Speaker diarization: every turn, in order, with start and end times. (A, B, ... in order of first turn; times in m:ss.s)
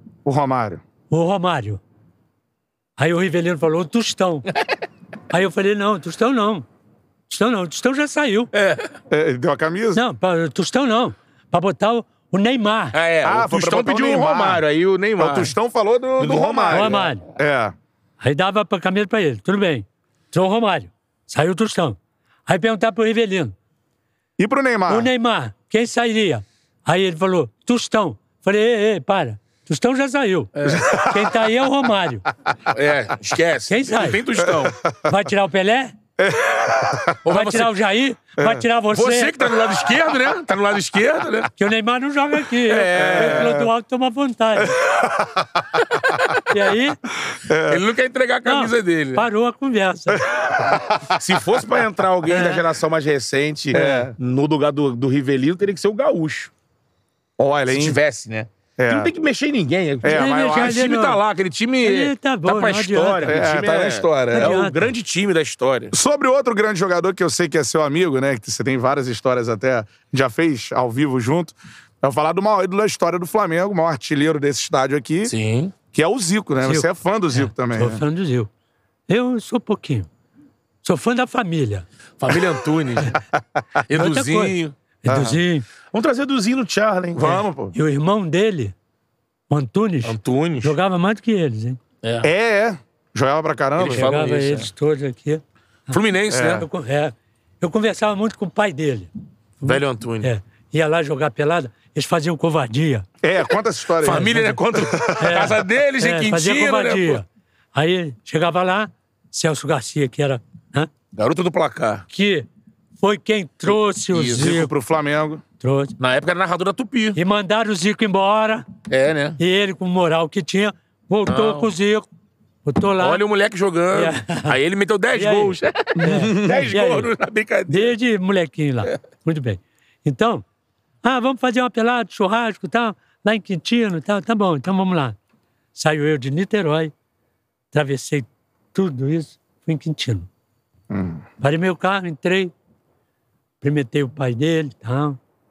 0:00.2-0:00.8 A
0:01.1-0:01.8 B
0:03.0-0:04.5 B
0:05.3-0:06.7 B
0:07.3-0:08.5 B
0:08.5-0:08.9 C
0:09.1-0:10.0 A
0:10.0-0:13.0 B
0:12.9-0:15.5 C
0:13.2-0:14.6 A
0:15.2-0:17.7 A
0:16.2-0:17.2 C
0:16.7-0:17.2 B
0:18.2-0:23.6 B
0:24.4-0:25.1 A
0:24.9-0:32.2 B
0:30.6-0:31.0 C
0:30.7-0:31.3 A
0:32.7-0:34.8 C
0:33.7-0:34.2 B
0:34.4-0:35.1 A
0:35.0-0:36.0 B
0:36.2-0:37.2 A
0:37.2-0:37.7 C
0:37.3-0:39.4 B
0:38.4-0:38.6 A
0:38.9-0:41.5 C
0:41.6-0:44.8 B
0:42.6-0:43.6 C
0:42.9-0:43.7 A
0:44.8-0:46.4 A
0:46.0-0:46.3 C
0:46.5-0:47.0 B
0:47.3-0:47.8 A
0:47.7-0:49.3 C
0:48.5-0:50.2 B
0:50.1-0:51.6 A
0:51.1-0:56.5 C
0:52.3-0:52.6 B
0:53.7-0:54.2 A
0:53.7-0:54.1 B
0:57.4-0:58.0 A
0:57.7-1:05.9 C
0:58.8-0:59.1 A
1:00.0-1:00.8 A
1:00.1-1:01.2 B
1:01.8-1:03.4 B
1:03.3-1:04.5 A
1:04.3-1:04.9 B
1:05.9-1:15.3 A
1:15.2-1:15.7 C
1:15.9-1:18.0 A
1:16.6-1:18.5 B
1:19.1-1:20.1 B
1:20.8-1:21.9 B
1:22.2-1:23.2 C
1:23.9-1:24.7 C
1:23.9-1:25.7 B
1:25.1-1:25.4 A
1:25.9-1:27.4 C
1:27.2-1:27.8 A
1:27.7-1:28.7 B
1:29.5-1:31.8 B
1:30.0-1:30.8 C
1:32.0-1:32.3 C
1:32.2-1:34.1 A
1:33.8-1:34.7 C
1:33.9-1:36.0 B
1:35.9-1:36.7 C
1:36.3-1:36.6 A
1:36.6-1:39.1 B
1:39.6-1:43.1 B
1:39.7-1:40.3 C
1:43.2-1:45.4 A
1:44.0-1:47.2 C
1:44.0-1:44.6 B
1:45.2-1:50.9 B
1:51.1-1:52.1 C
1:52.1-1:52.5 B
1:53.0-1:54.7 B
1:54.1-1:54.6 C
1:54.3-1:55.4 A
1:55.6-1:56.0 B
1:56.0-1:57.2 C
1:57.2-1:58.7 B
1:58.9-1:59.4 C
1:59.4-2:02.1 B
2:01.3-2:01.7 C
2:02.6-2:03.2 B
2:03.0-2:08.0 C
2:03.9-2:04.6 B
2:05.1-2:07.1 B
2:06.0-2:06.5 A
2:07.7-2:10.4 B
2:11.0-2:15.2 B
2:15.8-2:16.9 B
2:17.7-2:20.3 B
2:20.9-2:21.2 A
2:21.4-2:22.5 B
2:23.6-2:25.2 B